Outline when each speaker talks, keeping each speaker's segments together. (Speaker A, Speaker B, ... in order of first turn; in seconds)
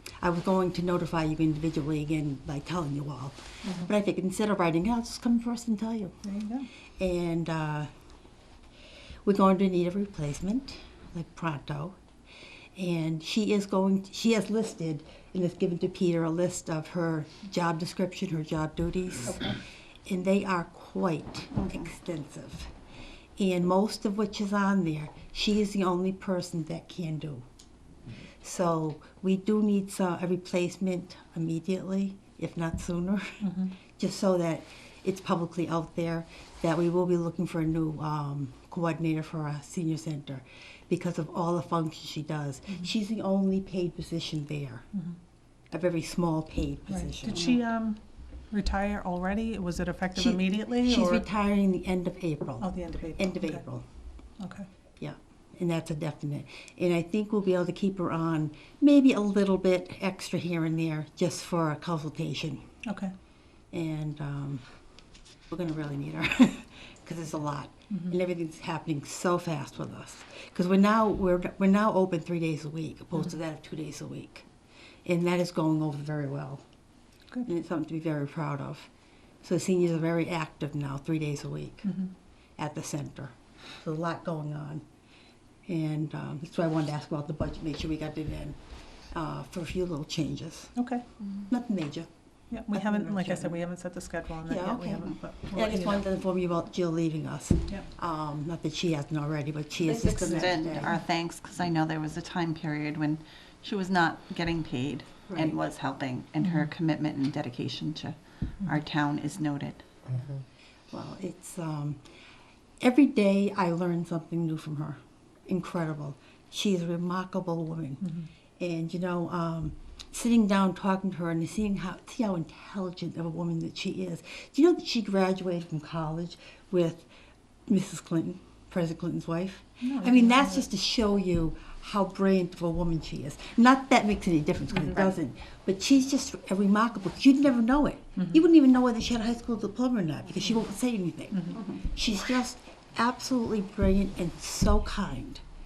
Speaker A: 0.2-6.2, 7.0-7.9, 9.2-12.0, 12.8-22.7, 23.4-27.4, 28.4-44.9, 45.7-47.6, 50.1-53.8, 55.0-62.6, 63.7-64.6, 65.5-74.5, 75.0-76.6, 77.4-78.9, 79.4-81.9, 82.6-84.8, 85.7-88.6, 89.1-90.7, 91.5-93.6, 94.4-101.0, 105.3-105.6, 110.9-112.0, 112.8-127.1, 127.7-145.4
Speaker B: 3.6-3.9, 6.2-6.7, 33.4-33.7, 46.9-48.0, 48.5-51.2, 52.6-53.6, 54.4-54.7, 62.9-63.1, 81.8-82.1, 90.7-91.0, 92.5-96.1, 100.3-100.9, 106.4-106.7, 129.8-130.7, 134.8-135.1, 138.2-138.4, 141.3-141.6
Speaker C: 21.5-21.9, 99.8-109.8